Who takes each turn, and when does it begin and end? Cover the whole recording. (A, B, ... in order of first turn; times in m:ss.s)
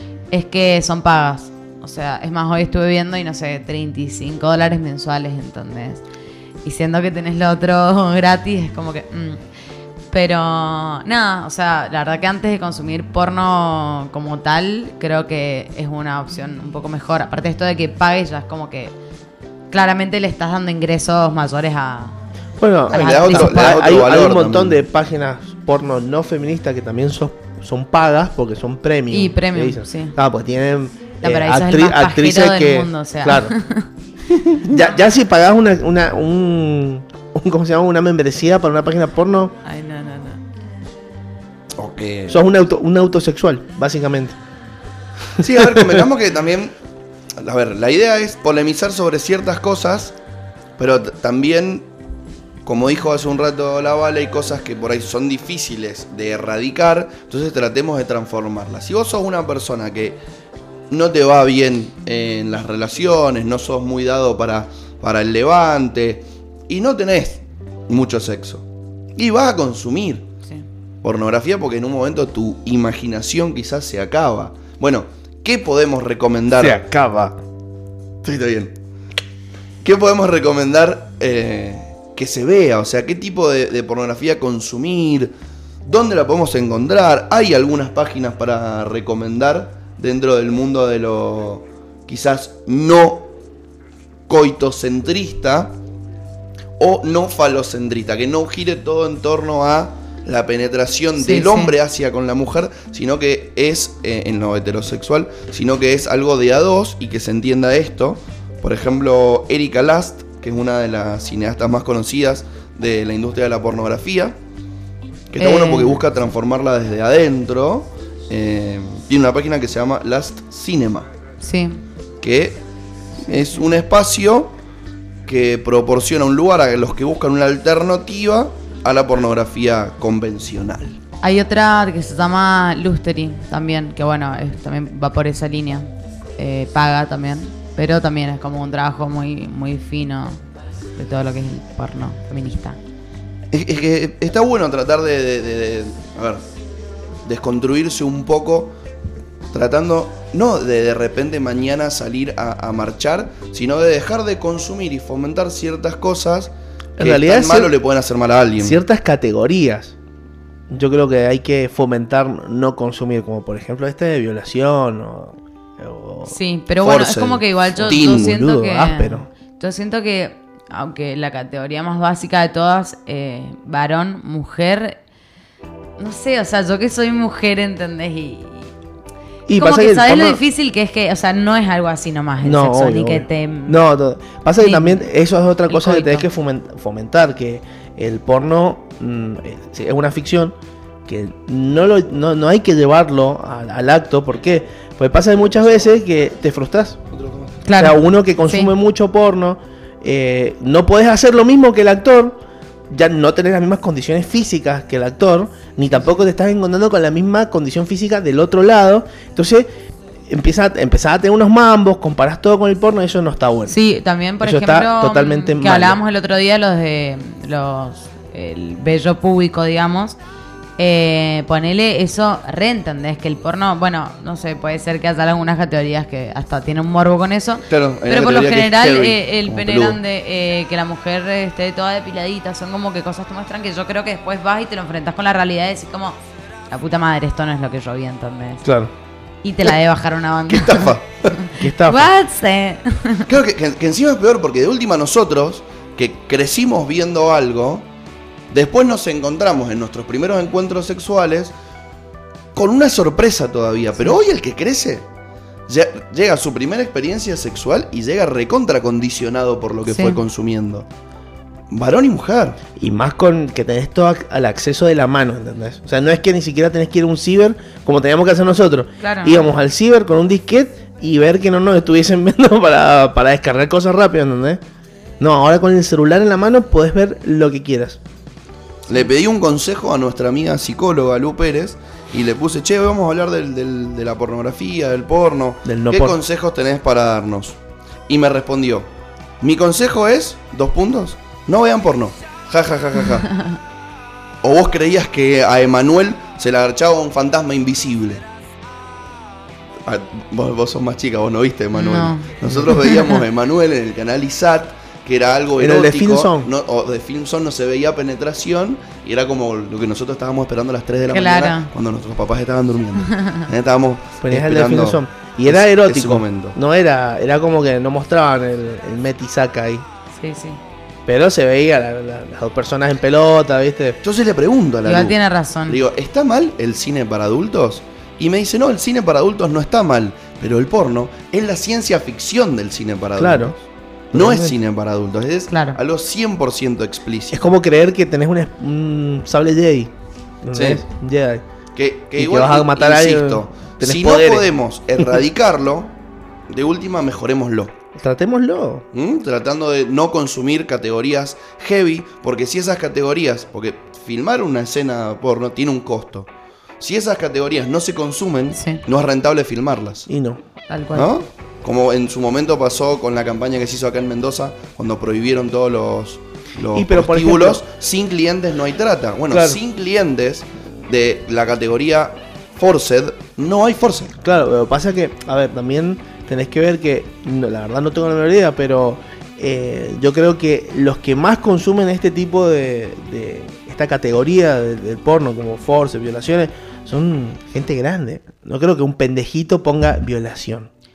0:00.3-0:06.0 A
0:06.6-0:09.4 A
0:10.1-0:18.9 A
0:19.7-0:22.2 A
0:22.6-0:33.5 B
0:22.9-0:24.8 C
0:22.9-0:23.8 A
0:29.1-0:30.2 A
0:31.2-0:33.9 A
0:34.6-0:39.5 B
0:34.7-0:35.0 A
0:39.6-0:40.4 A
0:41.8-0:42.4 C
0:42.3-0:44.4 B
0:45.4-0:46.7 C
0:45.7-0:46.0 B
0:47.4-0:50.1 C
0:50.8-0:51.9 C
0:52.6-1:00.2 C
1:00.9-1:08.6 C
1:09.2-1:10.3 C
1:11.0-1:16.9 C
1:16.6-1:17.4 B
1:18.2-1:18.7 C
1:19.8-1:25.3 C
1:25.8-1:33.3 C
1:34.3-1:35.8 C
1:36.8-1:54.4 C
1:41.2-1:41.7 A
1:55.3-2:01.1 C
1:55.4-1:56.0 A
2:01.4-2:01.8 A
2:02.2-2:02.6 C
2:03.2-2:04.6 C
2:05.2-2:11.0 C
2:11.2-2:20.4 A
2:20.9-2:22.8 A
2:23.5-2:26.4 C
2:27.2-2:28.7 C
2:29.5-2:38.8 C
2:37.0-2:37.7 B
2:38.6-2:39.9 B
2:40.7-2:46.4 B
2:46.3-2:55.0 A
2:46.8-2:48.4 C
2:47.8-2:49.3 B
2:56.0-2:58.7 A
2:59.5-3:00.4 B
2:59.6-3:03.8 A
3:02.4-3:10.5 B
3:04.6-3:05.0 A
3:05.7-3:06.3 A
3:11.0-3:17.0 B
3:17.1-3:17.6 C
3:17.6-3:18.7 A
3:17.8-3:22.4 B
3:22.9-3:29.7 B
3:30.3-3:33.7 B
3:33.7-3:40.2 A
3:34.4-3:36.0 B
3:40.8-3:56.2 A
3:47.7-3:50.0 C
3:56.7-3:58.6 A
3:58.6-3:58.9 B
3:59.4-4:03.3 A
4:00.5-4:01.4 C
4:01.6-4:02.1 B
4:03.2-4:07.9 C
4:08.5-4:11.5 C
4:12.5-4:15.1 C
4:15.7-4:20.9 C
4:19.9-4:20.2 A
4:21.7-4:22.6 C
4:22.8-4:34.6 B
4:29.0-4:29.5 A
4:35.2-4:38.0 B
4:38.9-4:48.9 C
4:45.6-4:46.2 B
4:49.4-4:53.3 C
4:54.4-4:58.2 C
4:59.8-5:16.6 C
5:01.7-5:03.1 A
5:05.6-5:06.5 B
5:11.1-5:11.7 A
5:13.0-5:13.4 A
5:14.2-5:19.8 B
5:20.1-5:20.6 A
5:21.1-5:24.0 B
5:24.0-5:37.4 C
5:24.8-5:25.8 A
5:33.2-5:33.5 B
5:34.1-5:34.5 B
5:35.5-5:35.8 A
5:37.3-5:41.4 B
5:40.5-5:40.8 C
5:41.7-5:45.9 C
5:42.2-5:44.5 B
5:46.5-5:47.8 C
5:48.0-5:48.8 B
5:48.9-6:00.1 C
5:58.5-5:58.8 A
6:00.1-6:00.4 B
6:00.7-6:01.1 A
6:00.9-6:14.1 C
6:06.7-6:07.6 B
6:09.3-6:09.6 B
6:14.2-6:30.7 B